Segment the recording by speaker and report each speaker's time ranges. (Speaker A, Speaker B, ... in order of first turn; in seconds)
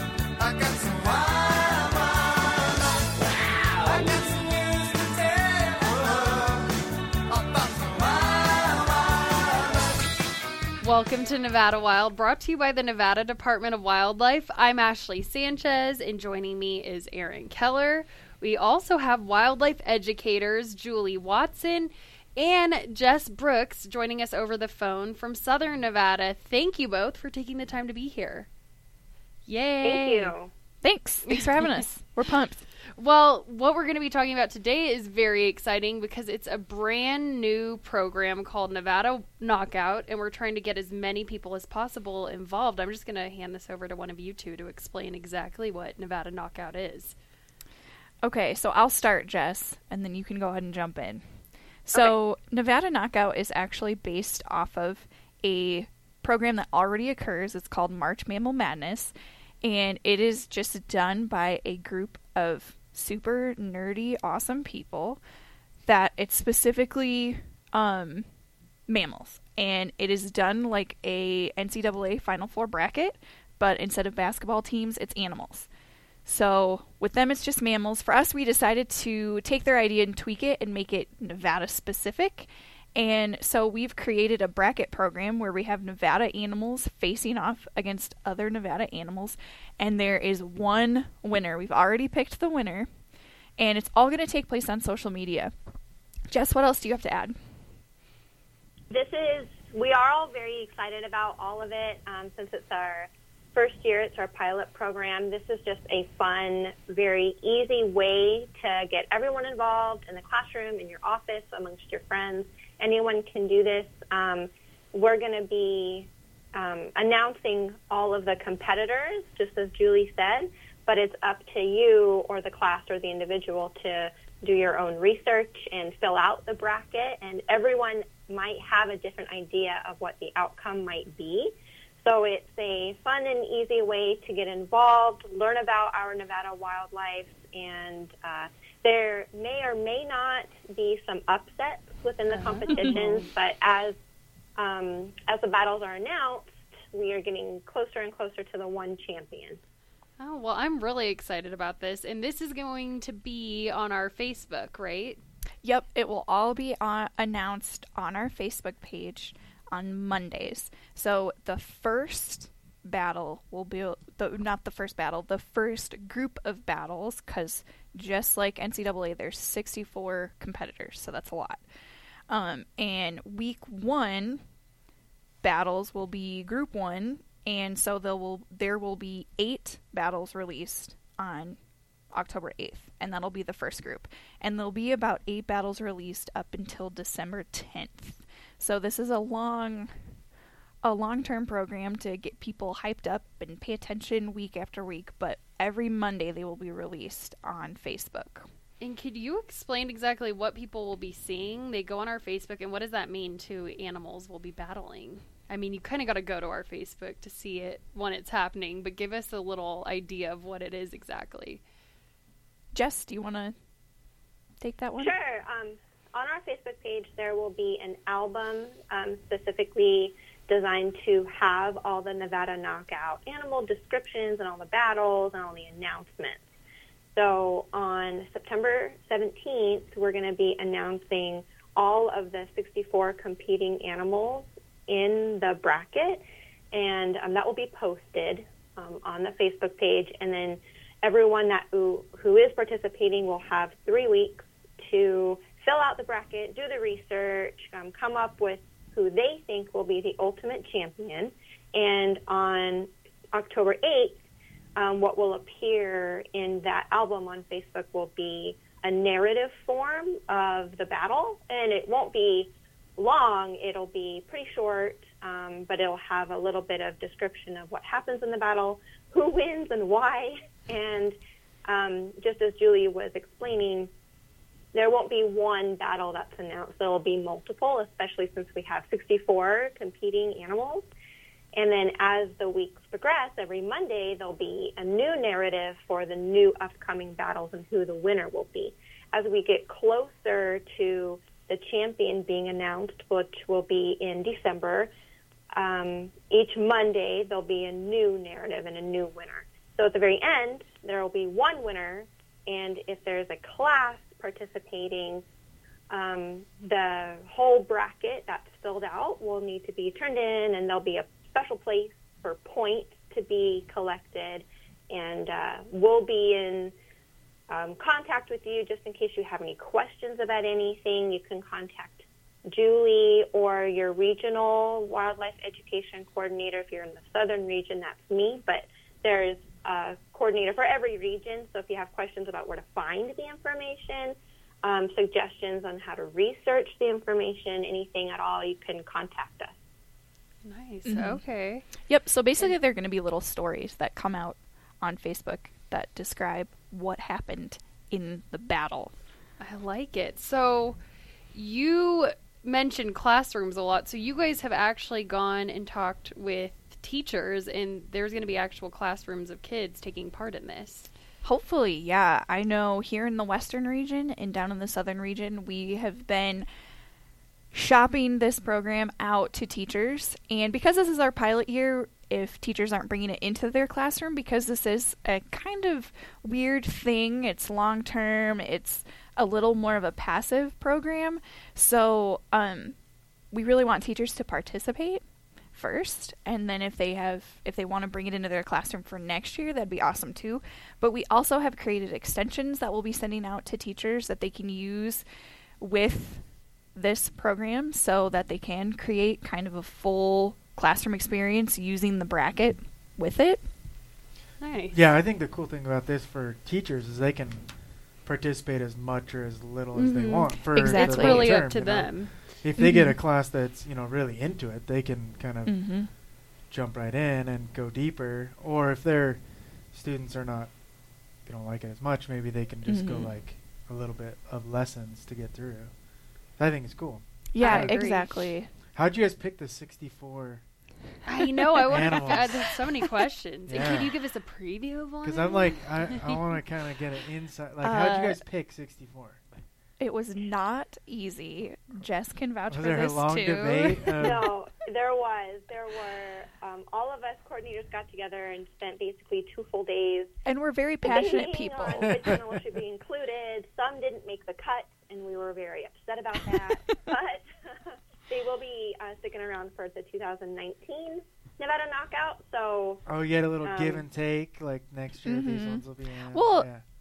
Speaker A: 0.4-6.7, 7.3-10.0
Speaker B: 10.8-28.5, 29.5-30.3, 31.3-31.8, 33.0-47.1, 142.3-143.3, 150.2-155.2, 198.8-211.6, 340.4-341.7, 349.4-350.8, 351.3-360.9, 404.4-404.8, 409.8-412.1, 427.4-428.1, 431.1-436.2
Speaker C: 29.8-30.5, 98.9-143.9, 144.6-149.6, 215.0-226.4, 227.2-254.2, 254.8-271.2, 271.7-273.9, 274.7-280.9, 281.6-294.9, 295.6-305.2, 305.9-316.7, 317.5-339.6, 444.0-450.1, 450.8-462.8, 463.4-463.9
Speaker D: 30.8-32.7, 48.2-51.2, 51.9-65.2, 65.8-68.3, 68.9-75.7, 76.2-92.9, 93.6-95.5, 96.3-97.3, 155.6-171.6, 172.3-174.4, 175.4-181.6, 182.1-189.9, 190.8-198.5, 212.7-213.6, 214.6-215.2, 340.9-341.2, 341.8-348.9, 361.2-366.5, 367.5-382.8, 383.3-395.1, 395.6-403.5, 410.5-411.3, 412.6-413.0, 415.5-415.9, 422.6-423.1, 427.3-428.5, 431.6-432.3, 437.6-438.2, 439.8-444.2, 450.3-452.1, 456.3-456.8, 465.1-466.5
Speaker E: 404.7-415.8, 416.5-420.6, 421.2-425.8, 426.4-428.0, 428.7-430.4, 431.7-432.5, 433.5-433.9, 435.0-439.2, 442.5-444.3, 451.6-452.2, 462.9-466.6